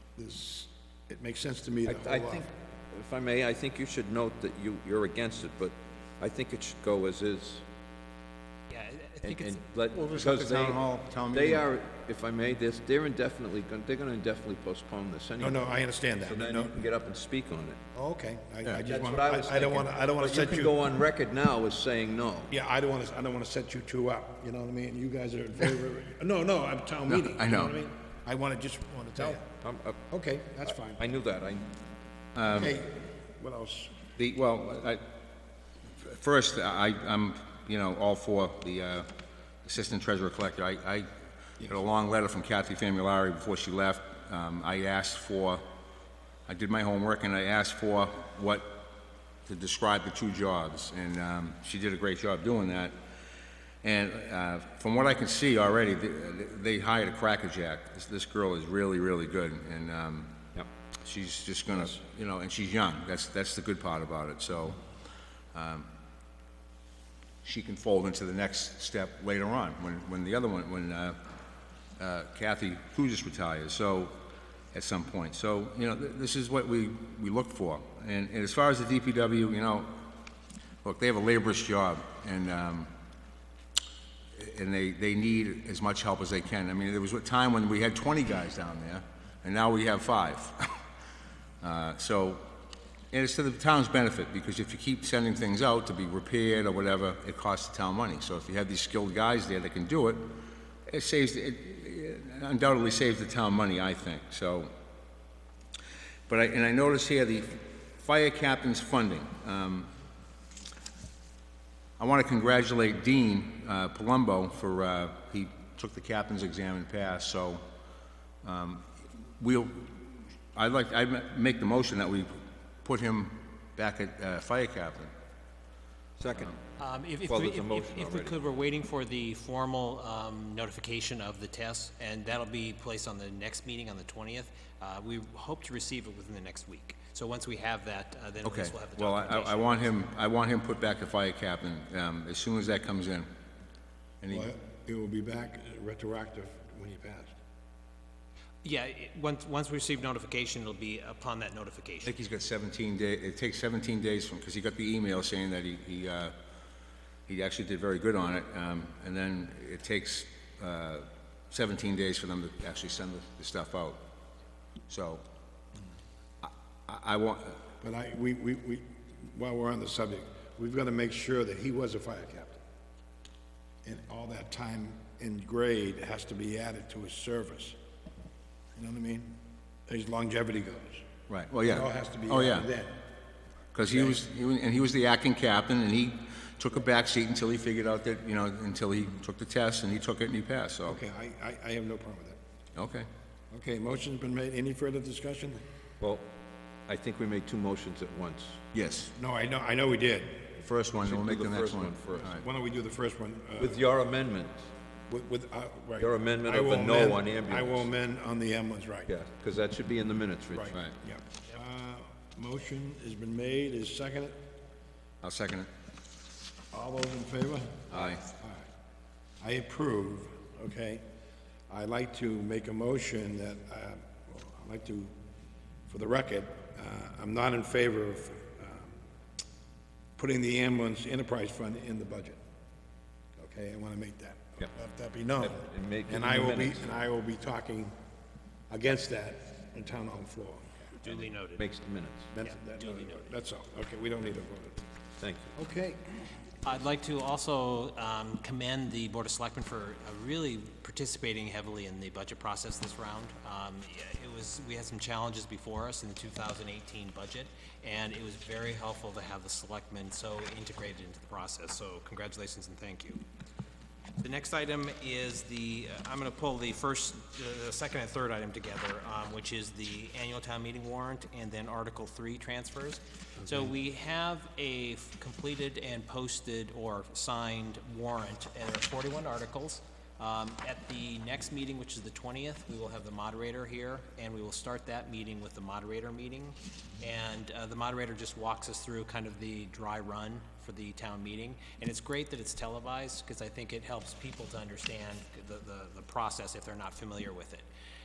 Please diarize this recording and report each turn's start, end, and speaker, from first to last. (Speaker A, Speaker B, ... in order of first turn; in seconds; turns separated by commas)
Speaker A: 0.1-2.5, Speaker B: 1.8-7.6, Speaker C: 8.7-9.6, Speaker B: 9.2-15.7, Speaker D: 9.9-11.7, Speaker A: 15.4-16.8, Speaker B: 16.2-17.8, Speaker A: 17.9-20.8, Speaker B: 18.8-22.5, Speaker A: 22.5-29.5, Speaker D: 27.1-27.8, Speaker B: 29.2-30.0, Speaker A: 30.1-31.0, Speaker B: 30.7-31.7, Speaker D: 32.3-32.8, Speaker A: 32.5-34.0, Speaker D: 34.1-35.0, Speaker D: 36.0-39.1, Speaker D: 39.6-41.1, Speaker D: 41.6-45.6, Speaker D: 46.5-48.9, Speaker D: 49.5-52.9, Speaker D: 53.8-60.4, Speaker D: 61.0-64.8, Speaker D: 65.5-65.9, Speaker D: 67.4-71.2, Speaker D: 72.0-74.2, Speaker D: 74.7-80.1, Speaker D: 80.8-82.9, Speaker D: 84.3-90.7, Speaker D: 91.6-92.5, Speaker D: 93.1-104.7, Speaker D: 106.3-109.9, Speaker D: 112.0-117.6, Speaker D: 118.4-125.1, Speaker B: 126.2-126.5, Speaker C: 126.8-139.9, Speaker B: 127.2-128.4, Speaker D: 138.4-143.3, Speaker D: 144.2-144.5, Speaker A: 144.3-147.3, Speaker C: 148.6-152.1, Speaker D: 152.0-156.3, Speaker D: 157.3-164.0, Speaker D: 164.9-165.2, Speaker D: 166.4-167.7, Speaker A: 167.8-172.6, Speaker A: 173.8-177.8, Speaker A: 178.8-181.0, Speaker D: 181.3-182.7, Speaker A: 181.6-183.1, Speaker D: 183.7-191.0, Speaker A: 183.9-184.2, Speaker A: 190.9-192.4, Speaker D: 192.8-193.1, Speaker A: 193.5-195.6, Speaker B: 196.0-196.3, Speaker B: 196.9-198.6, Speaker D: 198.7-199.1, Speaker A: 199.1-200.5, Speaker D: 200.6-202.4, Speaker B: 201.0-202.3, Speaker A: 202.2-203.8, Speaker B: 203.6-204.7, Speaker A: 205.1-209.1, Speaker B: 206.0-207.9, Speaker B: 209.1-210.8, Speaker A: 210.5-214.4, Speaker D: 215.2-215.7, Speaker A: 216.7-218.7, Speaker D: 217.9-218.2, Speaker A: 219.4-221.0, Speaker A: 221.7-225.1, Speaker A: 225.9-229.0, Speaker A: 230.2-232.4, Speaker A: 233.4-237.9, Speaker B: 235.4-236.9, Speaker A: 238.7-240.9, Speaker C: 241.0-241.7, Speaker B: 241.6-242.3, Speaker A: 242.3-244.8, Speaker C: 242.4-243.2, Speaker B: 245.2-245.5, Speaker A: 245.5-246.3, Speaker C: 246.6-263.2, Speaker C: 264.2-297.7